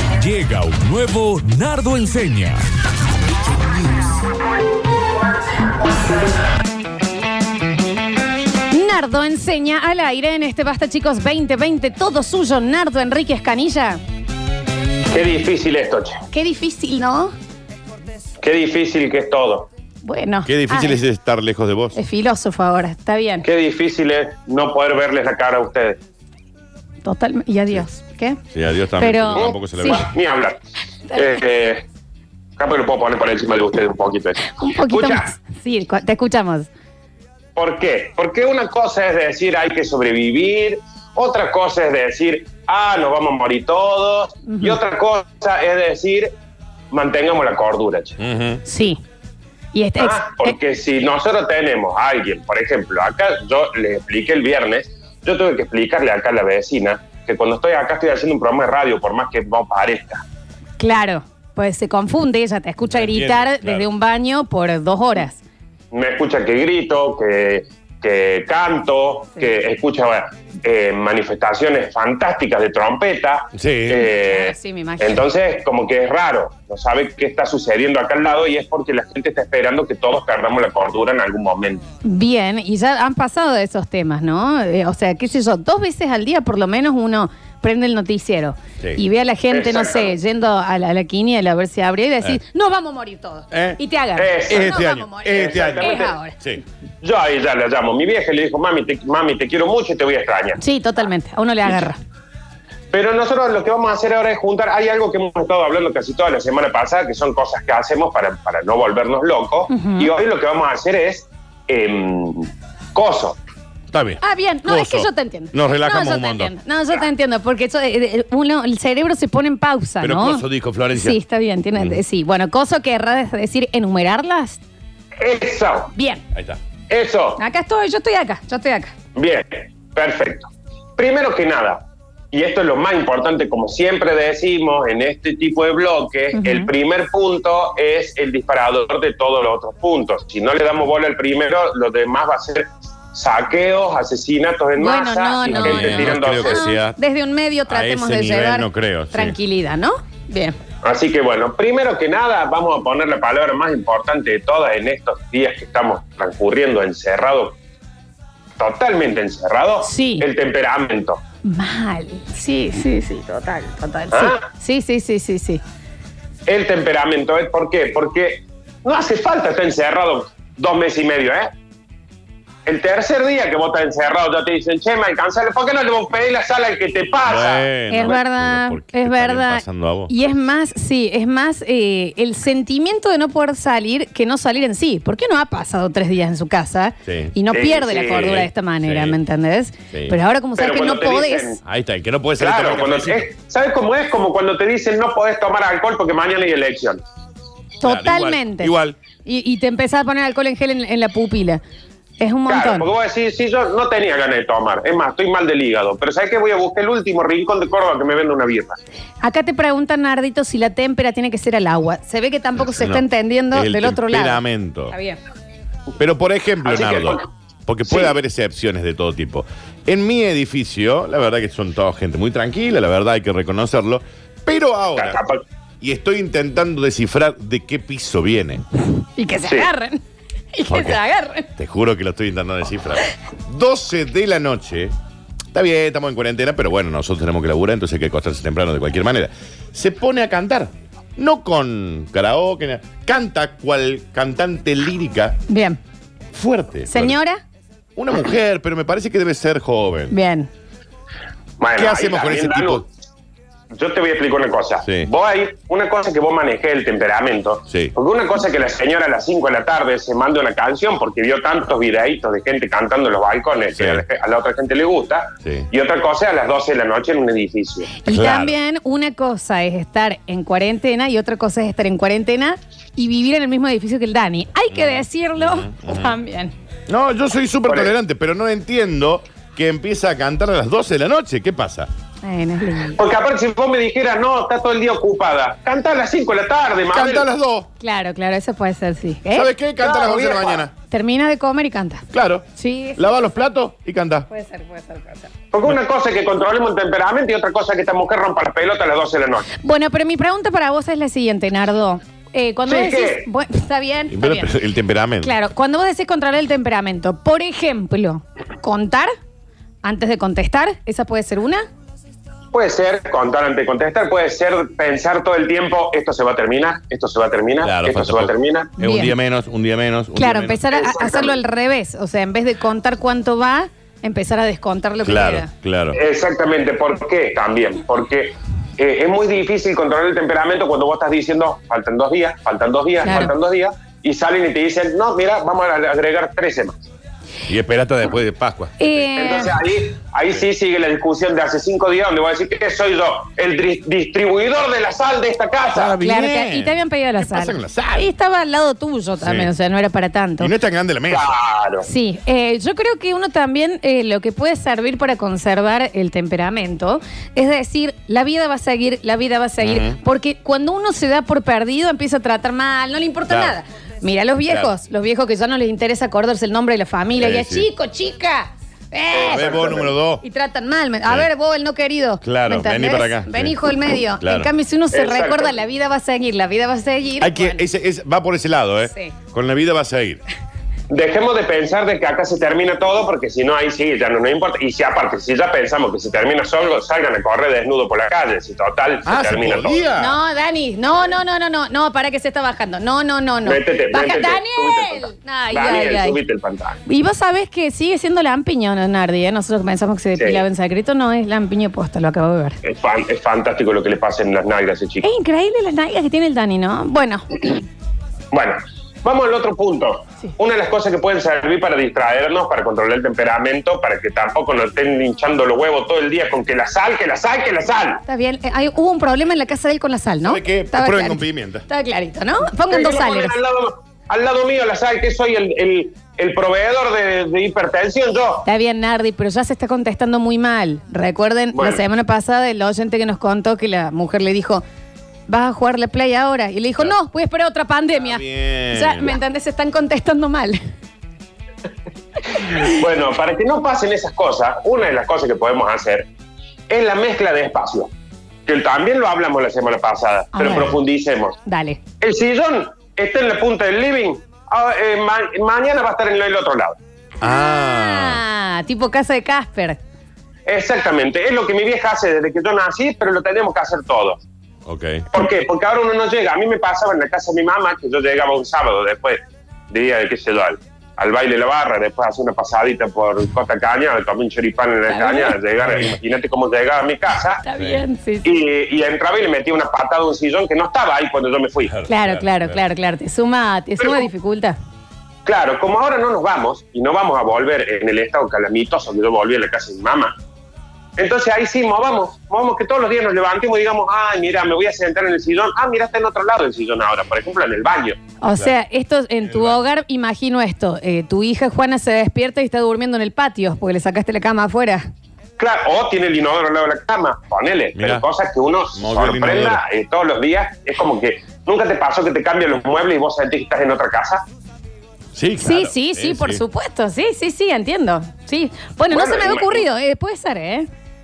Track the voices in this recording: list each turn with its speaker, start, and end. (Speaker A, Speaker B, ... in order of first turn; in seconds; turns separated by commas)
Speaker A: 0.2-2.6, Speaker B: 8.7-14.0, Speaker C: 15.1-16.2, Speaker B: 16.3-17.3, Speaker C: 18.4-19.7, Speaker B: 20.0-21.0, Speaker D: 20.4-22.0, Speaker B: 21.9-23.4, Speaker C: 23.4-26.0, Speaker B: 27.0-28.4, Speaker D: 28.5-30.1, Speaker B: 29.0-30.1, Speaker C: 29.3-30.6, Speaker C: 31.1-31.8, Speaker C: 32.6-35.3, Speaker B: 34.5-36.7, Speaker C: 37.5-46.3, Speaker B: 44.5-44.8, Speaker C: 46.9-48.2, Speaker D: 48.2-48.6, Speaker B: 48.6-49.0, Speaker B: 49.7-50.5, Speaker C: 50.0-60.2, Speaker B: 60.8-65.4, Speaker D: 62.9-63.9, Speaker C: 65.9-81.8, Speaker D: 73.5-74.1, Speaker B: 74.0-75.2, Speaker B: 82.0-96.4, Speaker C: 89.5-90.1, Speaker D: 93.5-93.8, Speaker C: 94.2-94.8, Speaker D: 94.5-96.6, Speaker C: 95.3-96.2, Speaker C: 97.0-100.6, Speaker B: 100.6-102.0, Speaker C: 102.9-113.4, Speaker B: 109.7-110.1, Speaker D: 113.9-116.5, Speaker B: 114.2-124.6, Speaker D: 120.0-121.2, Speaker C: 125.2-125.9, Speaker B: 125.9-126.2, Speaker D: 126.3-126.6, Speaker C: 126.9-127.4, Speaker B: 127.4-128.9, Speaker C: 129.2-146.7, Speaker B: 136.3-136.7, Speaker B: 144.8-150.6, Speaker D: 145.5-147.0, Speaker D: 147.7-149.3, Speaker C: 150.8-157.6, Speaker C: 158.6-161.2, Speaker B: 159.8-160.3, Speaker B: 161.4-165.6, Speaker C: 164.1-164.4, Speaker C: 166.5-171.5, Speaker C: 172.7-178.2, Speaker D: 177.2-180.1, Speaker B: 177.9-191.6, Speaker D: 187.1-187.3, Speaker C: 187.5-188.5, Speaker D: 188.1-189.2, Speaker C: 190.6-191.6, Speaker D: 191.7-193.3, Speaker C: 192.4-197.0, Speaker B: 197.8-198.7, Speaker D: 197.8-199.0, Speaker B: 199.2-201.6, Speaker B: 202.2-202.9, Speaker C: 202.5-208.8, Speaker B: 209.2-215.2, Speaker D: 212.6-214.9, Speaker D: 216.0-225.2, Speaker C: 216.6-217.3, Speaker C: 217.9-218.1, Speaker C: 225.0-225.4, Speaker D: 225.8-228.6, Speaker B: 229.2-230.0, Speaker B: 230.5-231.5, Speaker D: 230.7-231.0, Speaker D: 231.6-234.9, Speaker D: 235.5-245.4, Speaker B: 245.5-245.8, Speaker D: 246.3-247.2, Speaker B: 246.9-247.4, Speaker D: 248.0-250.1, Speaker B: 250.1-250.5, Speaker C: 251.6-252.9, Speaker D: 251.8-252.8, Speaker C: 253.7-268.0, Speaker D: 254.8-255.1, Speaker D: 263.7-264.0, Speaker B: 268.0-276.5, Speaker D: 268.1-268.5, Speaker D: 274.7-276.1, Speaker D: 276.9-281.9, Speaker C: 277.7-277.9, Speaker B: 282.2-283.0, Speaker C: 282.9-287.3, Speaker D: 286.9-287.7, Speaker B: 287.8-289.5, Speaker D: 289.3-290.7, Speaker C: 289.8-290.6, Speaker B: 290.9-292.1, Speaker D: 292.1-294.3, Speaker B: 292.6-293.2, Speaker B: 294.3-295.3, Speaker C: 295.5-299.5, Speaker B: 299.6-304.5, Speaker C: 302.7-303.3, Speaker D: 304.1-305.3, Speaker B: 305.2-309.1, Speaker B: 309.8-311.6, Speaker C: 312.5-318.7, Speaker D: 317.6-320.6, Speaker B: 318.8-319.1, Speaker B: 320.2-325.5, Speaker C: 320.7-321.4, Speaker D: 325.0-326.0, Speaker C: 325.9-336.8, Speaker B: 333.0-333.3, Speaker D: 337.5-339.4, Speaker B: 338.8-339.6, Speaker C: 339.2-346.0, Speaker D: 345.7-348.1, Speaker B: 346.0-350.5, Speaker D: 349.2-349.5, Speaker D: 350.4-351.3, Speaker C: 351.1-351.9, Speaker B: 351.8-377.6, Speaker D: 359.6-360.0, Speaker D: 363.3-363.6, Speaker D: 367.2-367.7, Speaker C: 369.1-369.8, Speaker D: 369.2-370.2, Speaker D: 372.2-374.5, Speaker C: 374.9-375.5, Speaker D: 377.2-380.2, Speaker B: 378.9-379.1, Speaker C: 380.9-389.8, Speaker D: 389.1-390.2, Speaker B: 390.0-396.2, Speaker C: 393.4-396.8, Speaker B: 396.9-402.6, Speaker C: 400.2-400.4, Speaker C: 402.6-405.1, Speaker B: 405.0-407.2, Speaker C: 408.3-418.0, Speaker B: 418.1-423.4, Speaker D: 420.2-421.6, Speaker C: 422.6-428.5, Speaker B: 428.5-434.6, Speaker C: 431.5-431.8, Speaker B: 435.3-440.6, Speaker D: 438.0-439.2, Speaker C: 442.4-446.1, Speaker C: 446.7-447.9, Speaker C: 448.5-451.4, Speaker B: 450.3-450.8, Speaker B: 451.4-451.8, Speaker C: 452.0-456.8, Speaker D: 457.2-458.2, Speaker B: 457.2-459.8, Speaker C: 460.5-464.2, Speaker D: 464.6-465.1, Speaker C: 465.1-477.4, Speaker B: 474.9-475.4, Speaker B: 477.4-478.3, Speaker D: 477.6-477.8, Speaker C: 478.2-481.7, Speaker D: 481.7-482.6, Speaker B: 481.9-484.6, Speaker C: 485.2-490.1, Speaker C: 491.0-498.0, Speaker B: 498.2-504.9, Speaker C: 505.4-514.2, Speaker D: 507.8-508.0, Speaker D: 508.8-509.6, Speaker D: 515.1-516.4, Speaker B: 515.4-520.7, Speaker C: 518.9-519.6